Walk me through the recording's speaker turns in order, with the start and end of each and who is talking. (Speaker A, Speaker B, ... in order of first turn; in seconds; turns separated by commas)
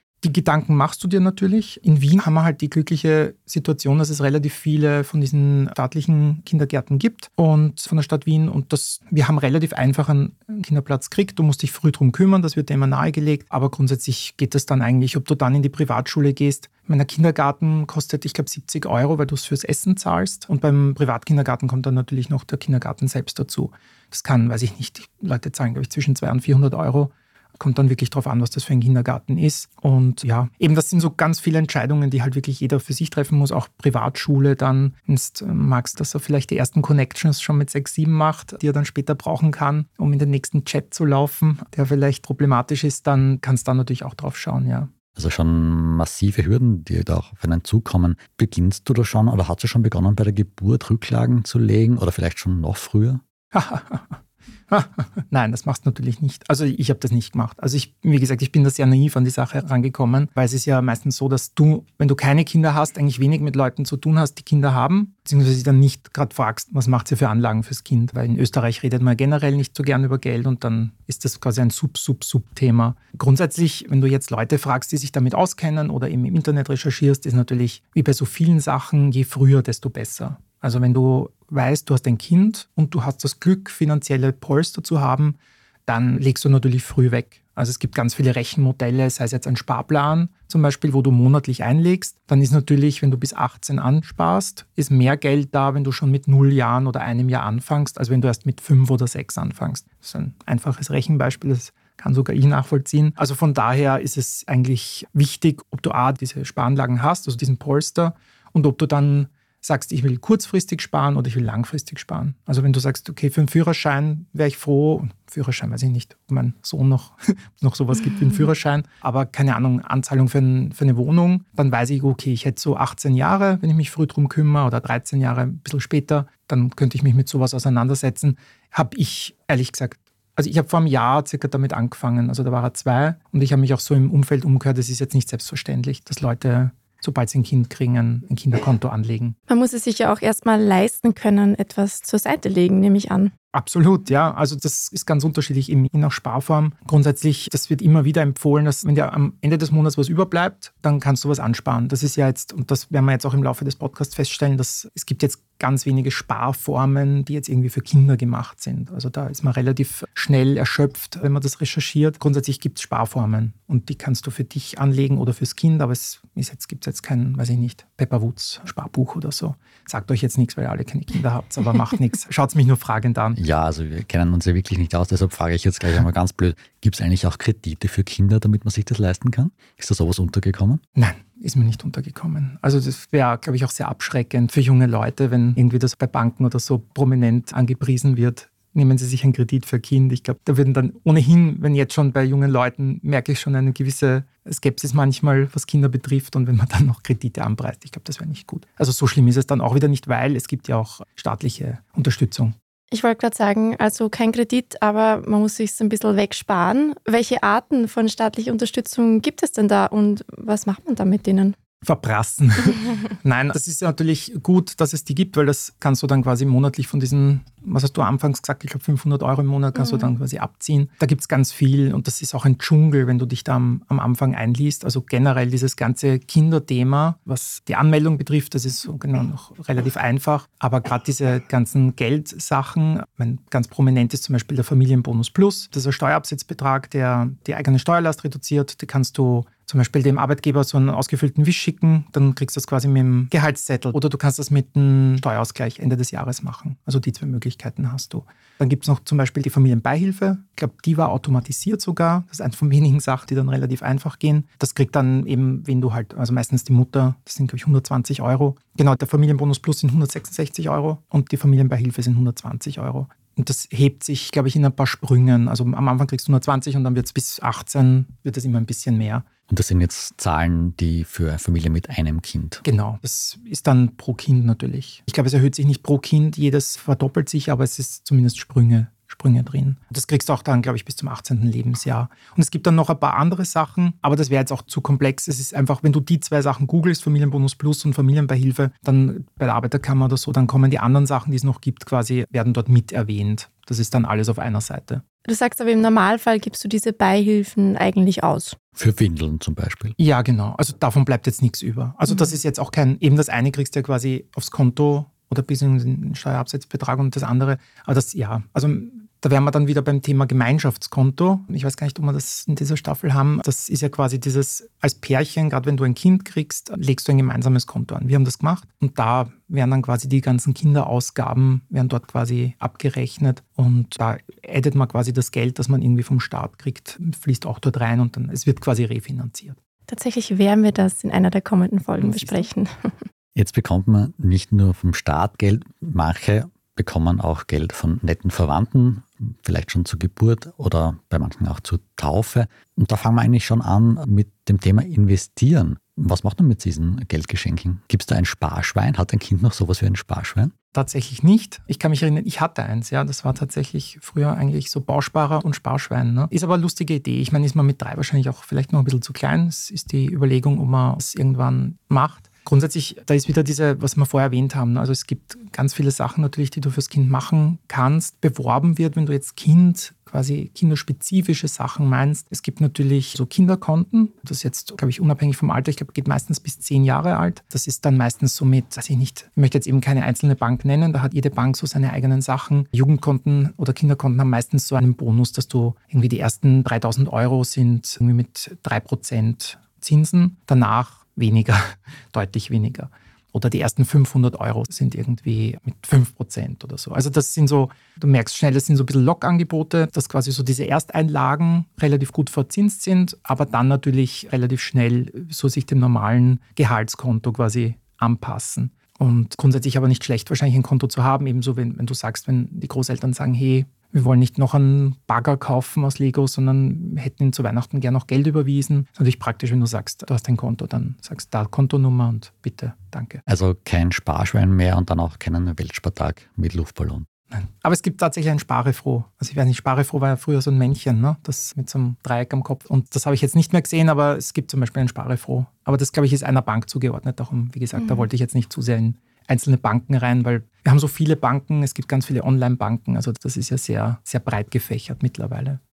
Speaker A: 0.2-44.9, Speaker B: 45.1-53.2, Speaker A: 53.5-54.2, Speaker A: 54.7-139.4, Speaker C: 139.5-143.3, Speaker A: 143.5-173.4, Speaker B: 173.4-180.8, Speaker A: 181.0-202.6, Speaker C: 202.9-211.6, Speaker A: 211.8-269.3, Speaker C: 219.8-220.1, Speaker B: 269.5-272.6, Speaker A: 272.6-295.0, Speaker C: 295.3-298.6, Speaker B: 298.8-300.0, Speaker A: 300.0-329.6, Speaker C: 329.9-333.0, Speaker A: 332.0-332.5, Speaker B: 333.4-350.5, Speaker A: 350.7-423.2, Speaker B: 423.3-427.1, Speaker A: 427.3-445.6, Speaker C: 437.8-438.1